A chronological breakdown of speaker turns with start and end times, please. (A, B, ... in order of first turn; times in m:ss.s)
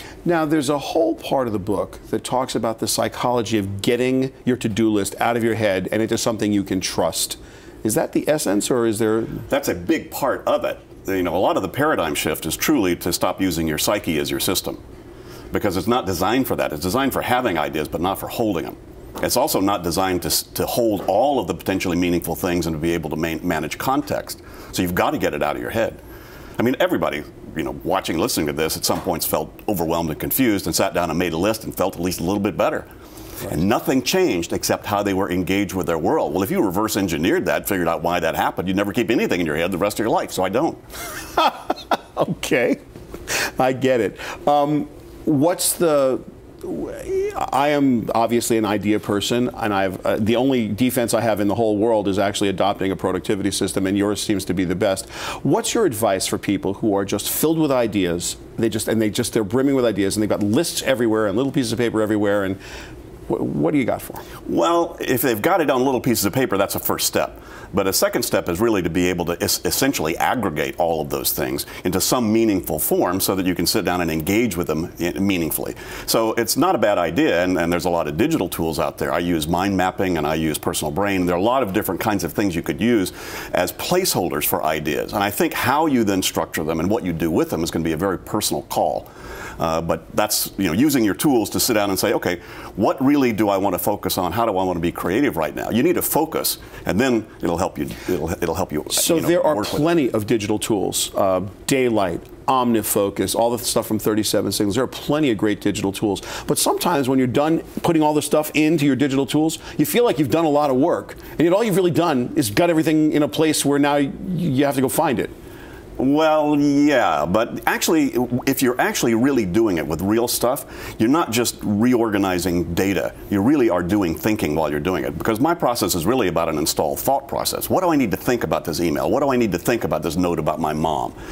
0:00.2-0:09.4 A
0:09.5-0:14.8 B
0:15.5-0:26.0 B
0:26.6-0:32.9 B
0:33.5-0:40.8 B
0:41.4-0:42.8 A
0:43.3-1:02.6 A
1:03.3-1:04.2 A
1:04.5-1:39.8 B
1:38.9-1:55.3 A
1:56.0-2:11.2 B